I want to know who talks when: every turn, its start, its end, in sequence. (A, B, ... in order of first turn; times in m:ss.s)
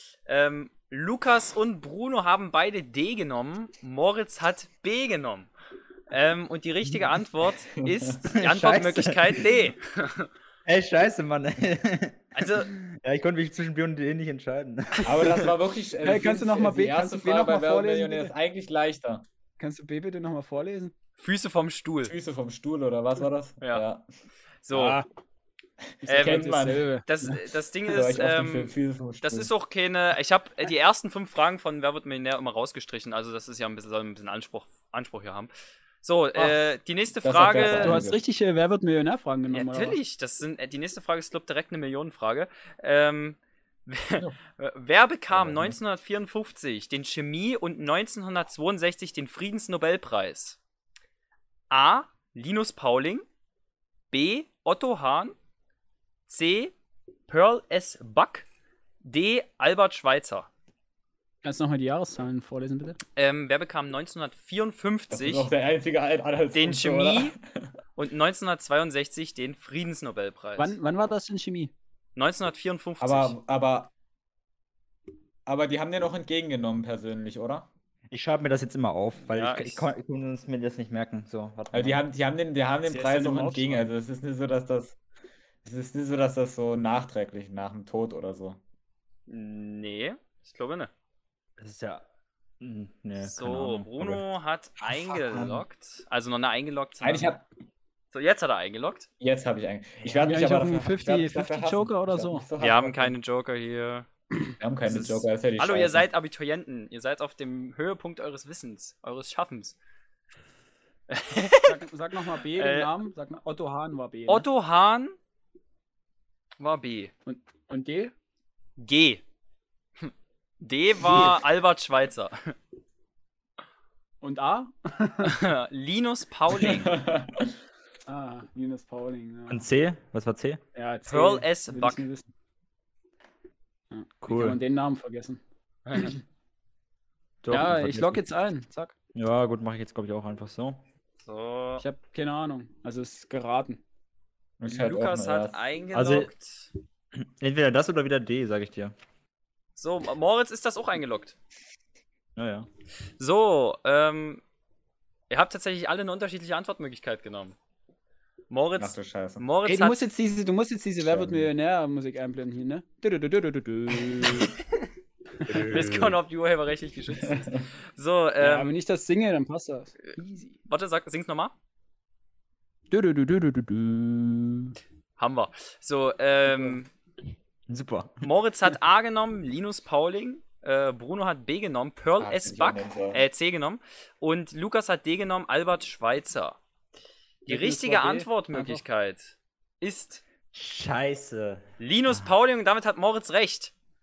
0:00.3-0:05.5 A
0:06.1-0:10.3 A
0:07.8-0:08.2 B
0:08.3-0:09.5 C
0:10.6-0:15.5 C
0:12.4-0:12.7 A
0:15.0-0:19.3 B
0:16.0-0:18.3 D
0:19.6-0:20.9 D
0:21.2-0:22.1 A
0:22.1-0:24.0 B
0:24.6-0:25.0 A
0:24.7-0:25.0 B
0:26.0-0:26.9 B
0:26.0-0:27.3 D
0:26.1-0:26.4 A
0:27.0-0:38.0 A
0:27.9-0:29.5 B
0:37.2-0:38.2 B
0:37.6-0:40.0 D
0:39.5-0:50.6 A
0:51.7-0:53.2 A
0:54.1-0:55.4 A
0:56.3-0:56.7 A
0:57.3-0:58.5 A
0:59.0-1:00.5 A
1:01.4-1:03.0 D
1:03.2-1:05.5 A
1:05.1-1:07.7 B
1:06.5-1:07.4 A
1:08.0-1:10.8 A
1:10.6-1:11.7 D
1:12.2-1:13.4 A
1:13.0-1:13.9 B
1:15.5-1:17.7 B
1:18.1-1:22.0 C
1:19.2-1:19.9 A
1:21.7-1:25.0 B
1:22.8-1:23.9 D
1:25.6-1:28.6 B
1:29.3-1:30.9 A
1:31.6-1:32.0 C
1:32.6-1:34.2 C
1:33.2-1:37.3 A
1:35.0-1:35.6 C
1:37.0-1:37.5 B
1:38.1-1:39.1 A
1:39.2-1:43.1 B
1:40.2-1:42.5 D
1:42.6-1:44.1 A
1:44.6-1:46.1 B
1:44.9-1:49.8 A
1:51.1-1:51.8 A
1:51.6-1:54.5 D
1:52.5-1:52.9 A
1:54.3-1:55.2 A
1:56.6-1:57.1 A
1:57.3-1:58.1 D
1:58.8-1:59.2 A
2:00.0-2:02.6 A
2:01.0-2:01.3 C
2:04.2-2:05.4 D
2:05.2-2:07.0 A
2:06.6-2:07.5 B
2:08.1-2:09.7 D
2:09.5-2:10.6 C
2:10.8-2:12.3 D
2:11.1-2:12.0 A
2:13.9-2:15.4 D
2:14.2-2:14.6 C
2:15.9-2:16.1 A
2:15.9-2:16.2 D
2:17.4-2:18.2 C
2:17.5-2:18.9 D
2:19.2-2:20.8 C
2:21.2-2:21.8 A
2:21.8-2:23.8 D
2:24.6-2:25.6 B
2:24.7-2:26.7 A
2:25.9-2:26.3 C
2:27.1-2:28.9 C
2:29.8-2:31.4 A
2:32.4-2:32.7 C
2:33.2-2:34.4 A
2:35.3-2:37.6 A
2:38.5-2:40.0 A
2:38.8-2:39.4 B
2:39.7-2:44.6 D
2:41.0-2:41.5 B
2:45.5-2:46.2 C
2:45.7-2:48.7 A
2:47.2-2:47.6 B
2:48.4-2:50.6 D
2:50.7-2:51.5 A
2:52.9-2:54.8 D
2:55.2-2:56.9 A
2:57.7-2:58.3 C
2:58.2-3:06.6 A
3:02.2-3:03.2 B
3:07.5-3:08.8 D
3:07.5-3:10.2 A
3:10.5-3:11.6 C
3:11.8-3:13.7 A